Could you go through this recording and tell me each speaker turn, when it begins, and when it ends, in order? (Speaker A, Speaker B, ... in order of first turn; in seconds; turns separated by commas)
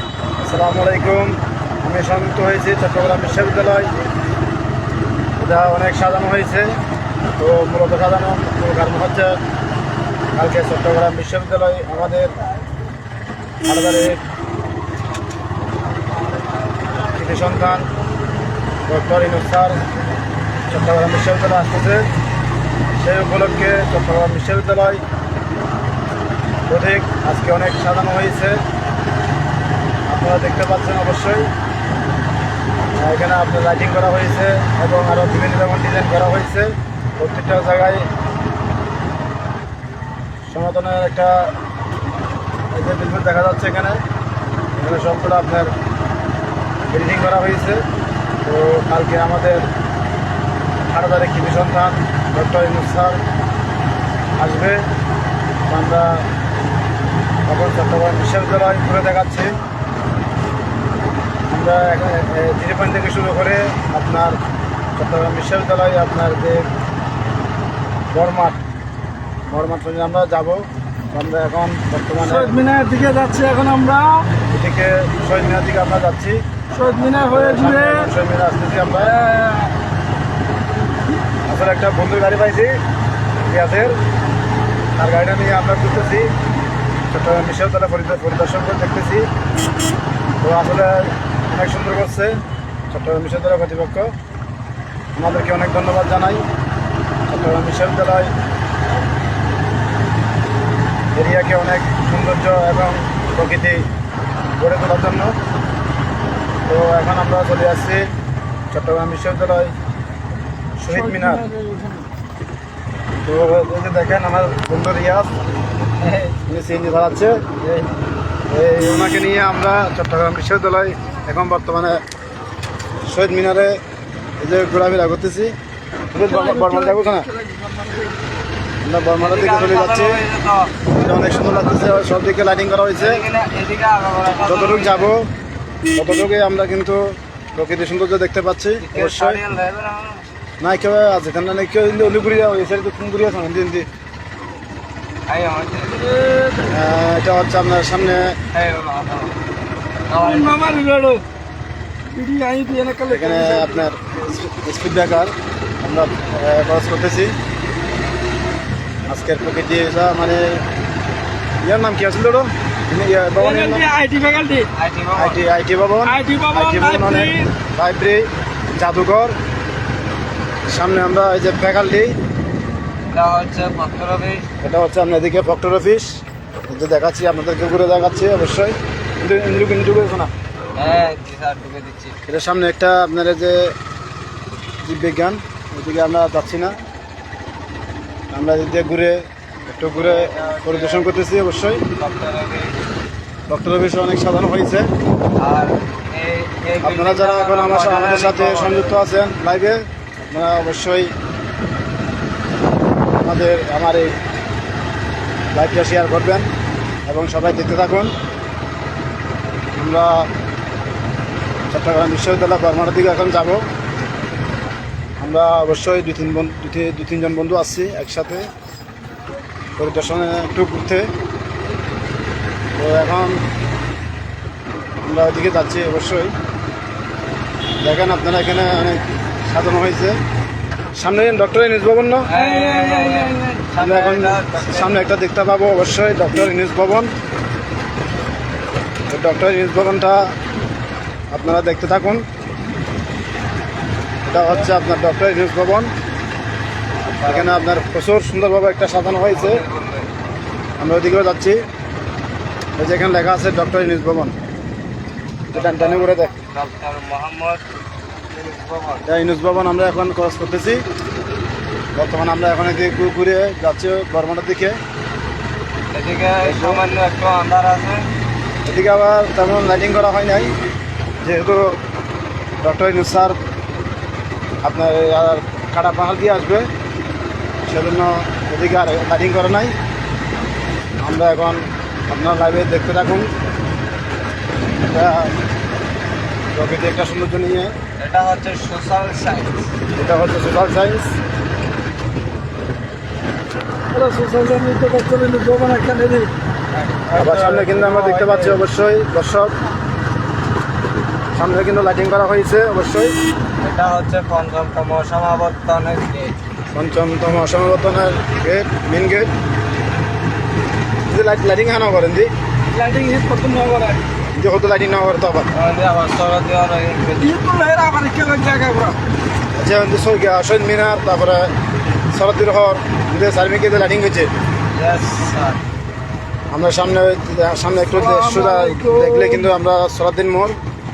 Speaker A: 0.4-3.9, Speaker A: 5.4-6.7, Speaker A: 7.4-9.3, Speaker A: 10.3-12.4, Speaker A: 13.7-14.2, Speaker A: 17.1-17.9, Speaker A: 18.9-19.8, Speaker A: 20.7-22.1, Speaker A: 23.0-25.0, Speaker A: 26.7-28.6, Speaker A: 30.1-31.5, Speaker A: 33.0-38.0, Speaker A: 40.5-41.4, Speaker A: 42.7-44.0, Speaker A: 44.8-45.7, Speaker A: 46.9-47.8, Speaker A: 48.4-49.7, Speaker A: 50.9-53.2, Speaker A: 54.4-54.8, Speaker A: 55.7-56.3, Speaker A: 57.5-59.5, Speaker A: 61.5-64.4, Speaker A: 65.0-66.7, Speaker A: 68.1-68.6, Speaker A: 69.5-72.6, Speaker B: 72.2-74.2, Speaker A: 74.5-76.4, Speaker B: 76.7-78.1, Speaker A: 77.2-79.2, Speaker B: 79.0-79.7, Speaker A: 81.5-82.7, Speaker A: 83.4-83.9, Speaker A: 85.0-86.3, Speaker A: 87.1-89.3, Speaker A: 90.4-92.4, Speaker A: 92.9-94.1, Speaker A: 95.2-96.4, Speaker A: 97.3-98.3, Speaker A: 101.1-103.8, Speaker A: 104.6-105.3, Speaker A: 106.7-108.1, Speaker A: 108.7-109.7, Speaker A: 110.8-111.5, Speaker B: 110.9-112.1, Speaker A: 113.2-115.3, Speaker C: 116.0-116.3, Speaker A: 116.5-117.5, Speaker A: 118.5-122.0, Speaker A: 123.0-123.8, Speaker A: 124.4-125.5, Speaker A: 126.1-127.3, Speaker B: 126.2-128.2, Speaker A: 128.8-130.2, Speaker C: 129.2-130.8, Speaker A: 131.0-133.2, Speaker B: 131.1-132.2, Speaker C: 132.9-135.1, Speaker A: 134.4-135.3, Speaker A: 135.9-139.4, Speaker C: 138.8-140.3, Speaker A: 140.6-143.9, Speaker C: 145.3-146.0, Speaker B: 145.9-146.8, Speaker A: 146.7-148.3, Speaker C: 148.5-149.3, Speaker C: 150.1-150.6, Speaker B: 150.2-151.2, Speaker B: 152.1-153.9, Speaker A: 153.1-157.3, Speaker A: 159.1-160.6, Speaker A: 161.6-163.8, Speaker B: 163.3-164.7, Speaker C: 164.7-165.4, Speaker A: 165.1-169.4, Speaker B: 166.0-167.5, Speaker A: 170.7-172.1, Speaker C: 173.1-174.5, Speaker A: 174.6-180.3, Speaker C: 180.8-182.2, Speaker A: 182.3-183.7, Speaker A: 184.8-186.8, Speaker A: 188.3-191.8, Speaker C: 189.9-191.1, Speaker C: 192.0-192.8, Speaker A: 193.5-194.9, Speaker C: 195.4-199.0, Speaker A: 196.8-201.1, Speaker A: 203.2-204.1, Speaker A: 205.5-206.5, Speaker A: 207.1-208.1, Speaker A: 209.8-210.3, Speaker A: 211.7-213.7, Speaker A: 215.2-218.5, Speaker A: 219.8-221.1, Speaker A: 222.8-223.4, Speaker A: 225.0-226.3, Speaker A: 227.8-230.2, Speaker A: 231.0-232.3, Speaker C: 232.2-235.0, Speaker B: 232.3-233.6, Speaker A: 233.8-237.1, Speaker A: 239.1-240.3, Speaker A: 241.3-242.2, Speaker A: 244.2-245.9, Speaker C: 247.0-247.7, Speaker A: 247.2-249.6, Speaker C: 249.3-250.1, Speaker A: 250.8-251.6, Speaker A: 252.8-254.3, Speaker C: 255.5-257.6, Speaker A: 255.5-256.3, Speaker C: 258.3-259.1, Speaker A: 259.1-260.8, Speaker A: 261.9-264.8, Speaker C: 265.9-268.1, Speaker A: 266.4-266.8, Speaker A: 268.6-270.5, Speaker A: 271.2-271.8, Speaker A: 272.6-273.4, Speaker A: 274.6-276.7, Speaker A: 277.6-279.7, Speaker A: 281.0-283.3, Speaker A: 284.8-285.3, Speaker A: 286.5-287.7, Speaker C: 288.0-289.7, Speaker A: 289.9-291.1, Speaker B: 293.9-296.3, Speaker C: 296.7-298.2, Speaker B: 297.2-298.6, Speaker A: 297.2-299.5, Speaker A: 301.3-303.1, Speaker C: 303.6-306.4, Speaker A: 306.7-309.3, Speaker A: 311.1-312.3, Speaker B: 312.7-314.0, Speaker A: 314.3-315.5, Speaker C: 315.5-317.4, Speaker B: 317.2-319.0, Speaker A: 319.6-321.5, Speaker A: 322.1-324.3, Speaker C: 324.7-325.6, Speaker A: 326.5-330.6, Speaker B: 327.9-329.5